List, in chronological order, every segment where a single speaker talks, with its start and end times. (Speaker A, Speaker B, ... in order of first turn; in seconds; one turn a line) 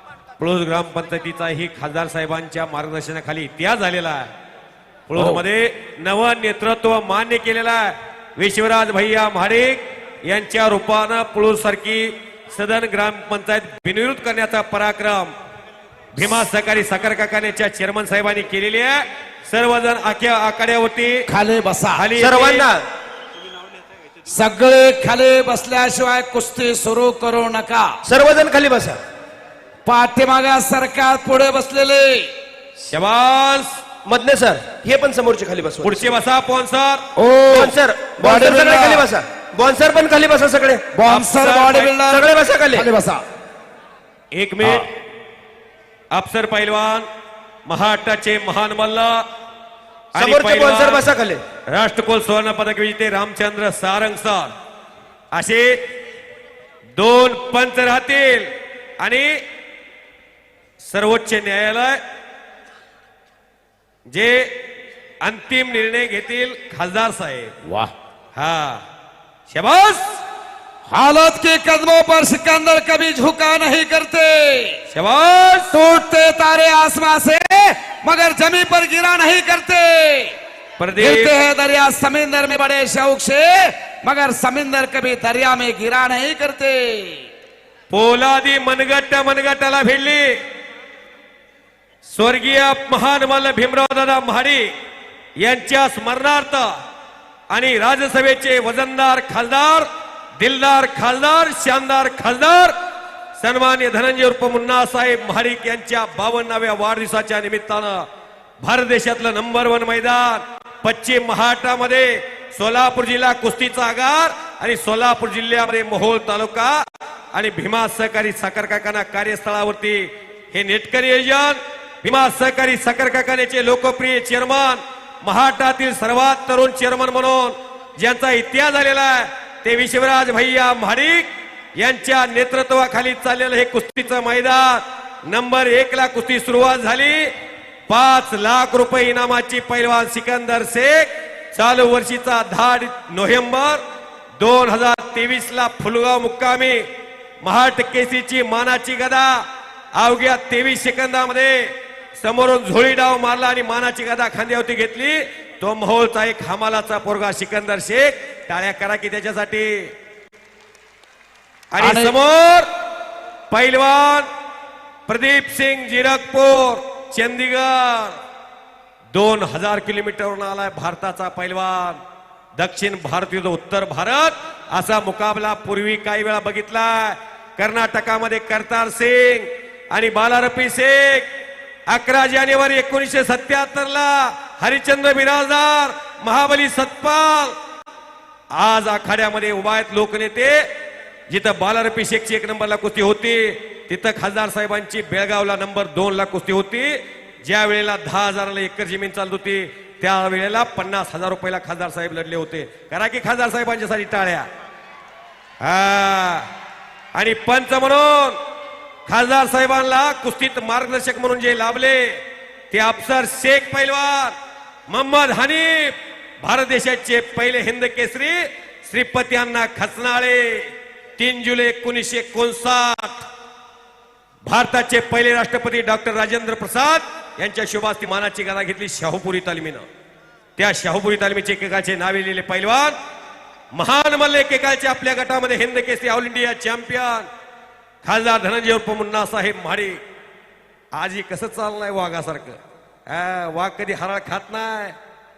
Speaker A: 0.4-4.3
Speaker A: 5.1-15.3
Speaker B: 5.1-5.4
Speaker A: 16.1-21.3
Speaker B: 21.3-22.1
Speaker A: 21.9-22.7
Speaker C: 22.1-22.8
Speaker B: 24.3-27.9
Speaker C: 28.0-29.0
Speaker B: 29.9-32.3
Speaker A: 32.9-33.7
Speaker C: 34.0-36.1
Speaker A: 35.8-37.1
Speaker B: 37.1-39.1
Speaker C: 37.5-40.8
Speaker B: 40.9-43.2
Speaker A: 41.0-41.9
Speaker C: 42.1-42.9
Speaker A: 44.3-44.9
Speaker A: 46.1-47.1
Speaker A: 47.6-49.2
Speaker A: 50.1-51.0
Speaker C: 50.2-51.4
Speaker A: 51.7-54.5
Speaker A: 55.3-55.8
Speaker A: 57.0-59.3
Speaker A: 60.8-62.0
Speaker A: 64.1-64.6
Speaker A: 65.2-67.5
Speaker B: 67.6-67.9
Speaker A: 68.3-68.8
Speaker A: 69.5-70.2
Speaker B: 70.9-74.8
Speaker A: 74.9-75.7
Speaker B: 75.7-80.3
Speaker A: 80.8-81.3
Speaker B: 81.0-87.3
Speaker A: 87.9-90.3
Speaker A: 92.1-94.7
Speaker A: 95.4-96.7
Speaker A: 97.5-102.8
Speaker A: 103.4-108.0
Speaker A: 108.6-116.8
Speaker A: 117.3-137.3
Speaker A: 137.9-143.8
Speaker A: 144.4-146.9
Speaker A: 147.4-149.4
Speaker A: 149.9-159.9
Speaker A: 161.7-162.7
Speaker B: 161.8-162.1
Speaker A: 163.5-164.3
Speaker A: 165.1-168.2
Speaker A: 169.1-172.0
Speaker A: 172.6-181.3
Speaker A: 181.9-187.6
Speaker A: 188.5-190.7
Speaker A: 191.3-204.5
Speaker A: 205.6-206.5
Speaker A: 207.1-208.4
Speaker A: 209.1-214.3
Speaker A: 214.9-223.3
Speaker A: 224.4-229.8
Speaker A: 230.6-233.0
Speaker A: 233.7-237.3
Speaker A: 238.0-240.0
Speaker A: 240.9-245.0